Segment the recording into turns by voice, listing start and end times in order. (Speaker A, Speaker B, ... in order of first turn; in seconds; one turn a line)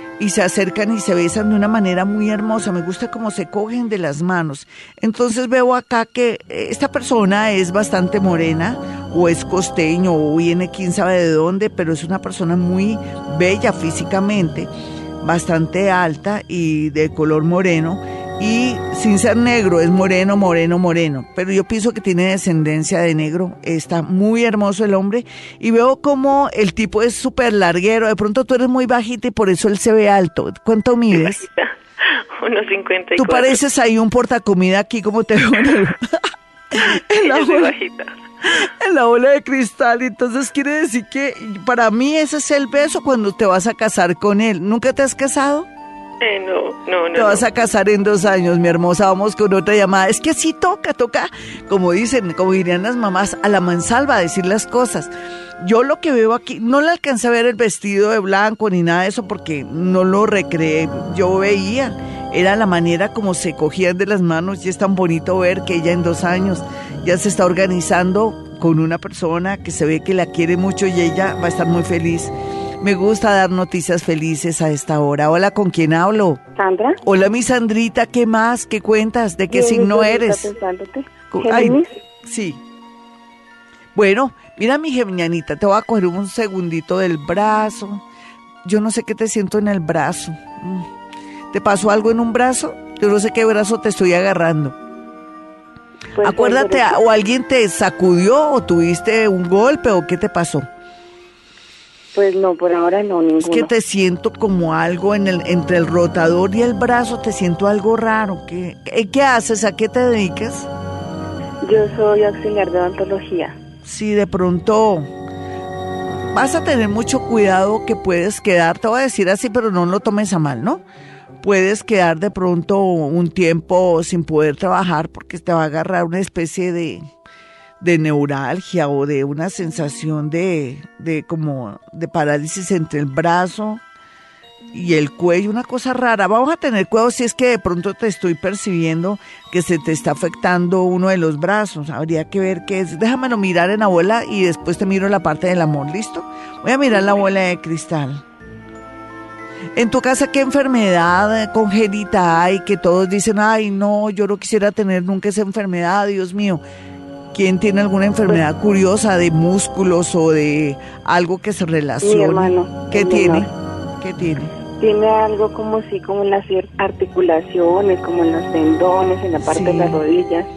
Speaker A: 0.2-14.7
Speaker A: 15.2-31.4
Speaker B: 31.4-31.7
Speaker B: 32.4-33.6
Speaker A: 33.1-36.1
Speaker A: 36.7-37.7
Speaker B: 37.2-38.1
Speaker A: 38.5-45.7
Speaker B: 46.2-47.4
Speaker A: 47.1-76.4
Speaker C: 76.6-77.0
Speaker A: 77.0-80.5
Speaker C: 79.5-81.9
Speaker A: 81.3-82.6
Speaker A: 84.0-88.0
Speaker A: 88.6-90.9
Speaker A: 91.5-94.8
Speaker C: 96.2-97.0
Speaker A: 96.2-100.7
Speaker C: 102.1-103.7
Speaker A: 103.4-110.7
Speaker C: 111.6-113.6
Speaker A: 113.9-115.1
Speaker A: 116.2-120.8
Speaker A: 121.4-127.0
Speaker A: 127.8-133.8
Speaker A: 134.7-148.2
Speaker A: 149.8-156.6
Speaker A: 157.3-163.5
Speaker C: 162.0-163.5
Speaker A: 164.0-164.5
Speaker C: 164.8-170.5
Speaker A: 169.4-170.0